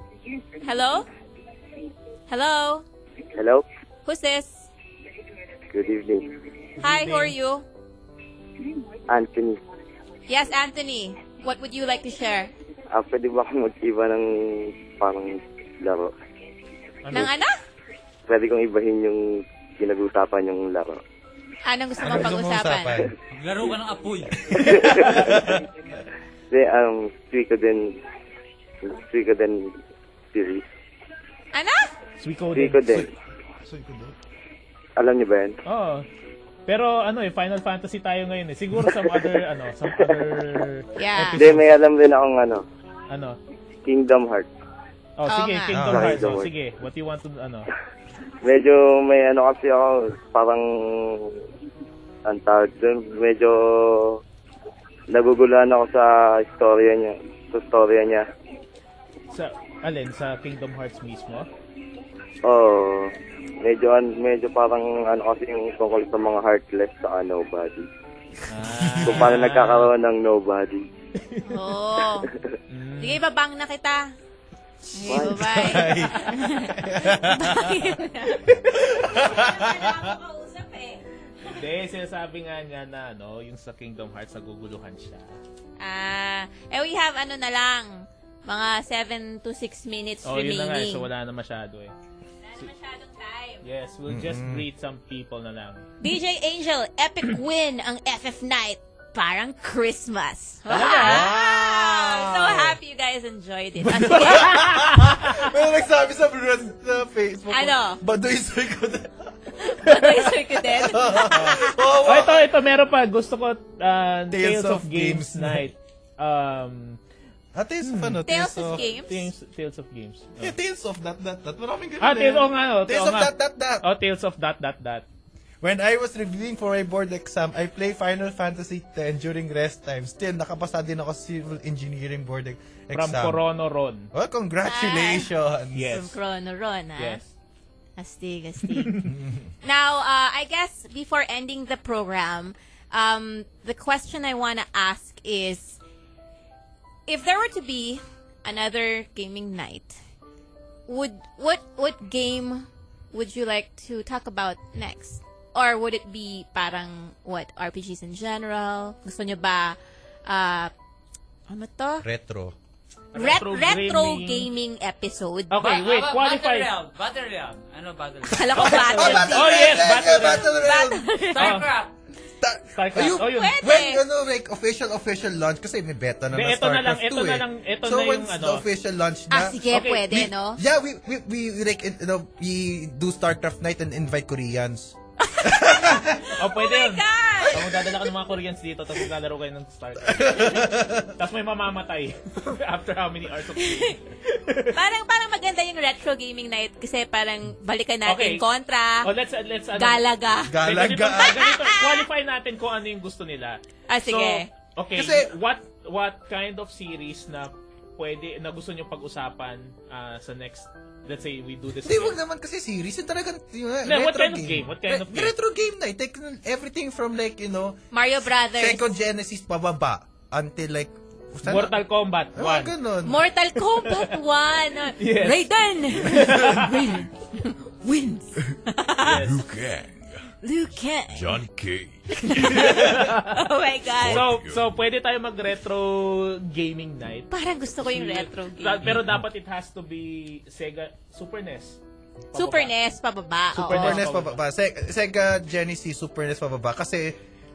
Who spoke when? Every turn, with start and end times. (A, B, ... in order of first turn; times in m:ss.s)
0:00.6-0:01.0 A
0:02.3-0:02.8 A
0:03.3-0:03.6 B
0:04.0-0:04.7 A
0:05.7-0:06.4 B
0:06.8-0:07.6 A
0:06.8-0:07.3 C
0:09.1-0:09.6 B
0:10.3-0:12.5 A
0:12.9-0:16.1 B
0:17.0-0:17.3 C
0:17.1-0:17.5 A
0:18.2-0:21.0 B
0:21.6-0:23.0 A
0:22.0-0:23.1 D
0:23.3-0:24.6 E
0:24.4-0:25.6 D
0:24.7-0:25.1 B
0:26.5-0:28.0 B
0:28.8-0:29.8 B
0:30.3-0:30.6 B
0:31.5-0:31.9 A
0:32.2-0:33.0 C
0:32.5-0:33.0 B
0:32.8-0:33.1 D
0:33.6-0:34.2 D
0:35.0-0:35.6 B
0:35.6-0:36.1 C
0:36.7-0:41.7 C
0:41.0-0:41.4 A
0:41.4-0:42.6 B
0:43.1-0:43.4 C
0:43.8-0:44.5 B
0:45.2-0:47.7 C
0:45.3-0:45.7 A
0:45.7-0:46.4 D
0:45.9-0:46.5 B
0:48.4-0:51.4 B
0:52.2-0:54.2 B
0:55.1-0:58.2 B
0:59.3-1:01.5 C
1:02.4-1:07.8 B
1:08.5-1:09.9 C
1:09.0-1:09.3 D
1:09.0-1:10.8 B
1:11.4-1:12.3 A
1:12.7-1:13.2 C
1:13.0-1:14.1 A
1:14.9-1:21.6 A
1:15.0-1:17.7 D
1:18.7-1:20.0 D
1:21.5-1:25.4 C
1:25.8-1:31.1 A
1:30.2-1:31.9 C
1:32.4-1:33.6 A
1:33.6-1:35.9 C
1:34.1-1:34.6 D
1:36.0-1:44.7 A
1:40.7-1:42.8 D
1:40.7-1:41.3 C
1:43.9-1:49.3 D
1:44.0-1:45.4 C
1:47.5-1:48.0 A
1:49.6-1:51.8 A
1:50.0-1:52.5 D
1:51.3-1:57.0 C
1:54.3-1:55.6 D
1:57.5-1:58.9 D
1:57.8-1:58.2 C
1:58.2-1:59.3 A
1:59.1-2:00.5 C
2:00.4-2:03.8 D
2:02.0-2:05.0 C
2:05.6-2:13.4 D
2:12.9-2:14.1 C
2:14.1-2:16.0 D
2:14.6-2:15.3 A
2:15.7-2:16.2 C
2:15.8-2:17.2 A
2:17.0-2:17.3 C
2:18.0-2:19.0 A
2:18.6-2:19.1 C
2:19.0-2:19.4 D
2:19.6-2:25.8 A
2:27.1-2:30.0 A
2:30.9-2:40.7 A
2:41.5-2:42.0 A
2:42.0-2:42.5 D
2:43.1-2:44.5 C
2:43.1-2:45.6 A
2:45.5-2:46.7 C
2:45.6-2:48.6 E
2:48.3-2:49.8 A
2:48.5-2:51.0 D
2:48.6-2:50.6 C
2:50.6-2:51.5 A
2:51.3-2:51.9 E
2:51.4-2:51.7 C
2:52.4-3:06.3 D
2:52.7-2:53.6 C
2:53.3-2:54.0 A
2:56.3-2:58.6 C
2:59.3-3:00.6 A
2:59.7-3:00.2 C
3:05.2-3:07.9 A
3:06.4-3:14.7 C
3:10.0-3:11.1 D
3:13.6-3:13.9 A
3:14.7-3:19.1 A
3:18.0-3:18.4 C
3:19.0-3:32.2 C
3:19.8-3:22.0 A
3:20.5-3:21.4 D
3:23.9-3:24.5 A
3:24.9-3:25.3 D
3:31.8-3:37.8 D
3:33.8-3:35.3 C
3:37.9-3:38.9 A
3:38.5-3:41.8 D
3:41.4-3:42.7 C
3:42.3-3:43.2 D
3:43.0-3:49.4 A
3:45.0-3:46.8 C
3:49.0-3:50.2 F
3:49.0-3:49.4 C
3:50.4-3:51.4 A
3:51.1-3:53.3 F
3:52.2-3:54.3 A
3:52.6-3:53.4 C
3:54.0-3:54.7 F
3:54.1-4:01.8 C
3:57.3-3:58.9 A
3:58.9-3:59.2 F
4:02.3-4:02.7 C
4:02.3-4:04.0 A
4:03.6-4:07.2 D
4:03.6-4:04.4 C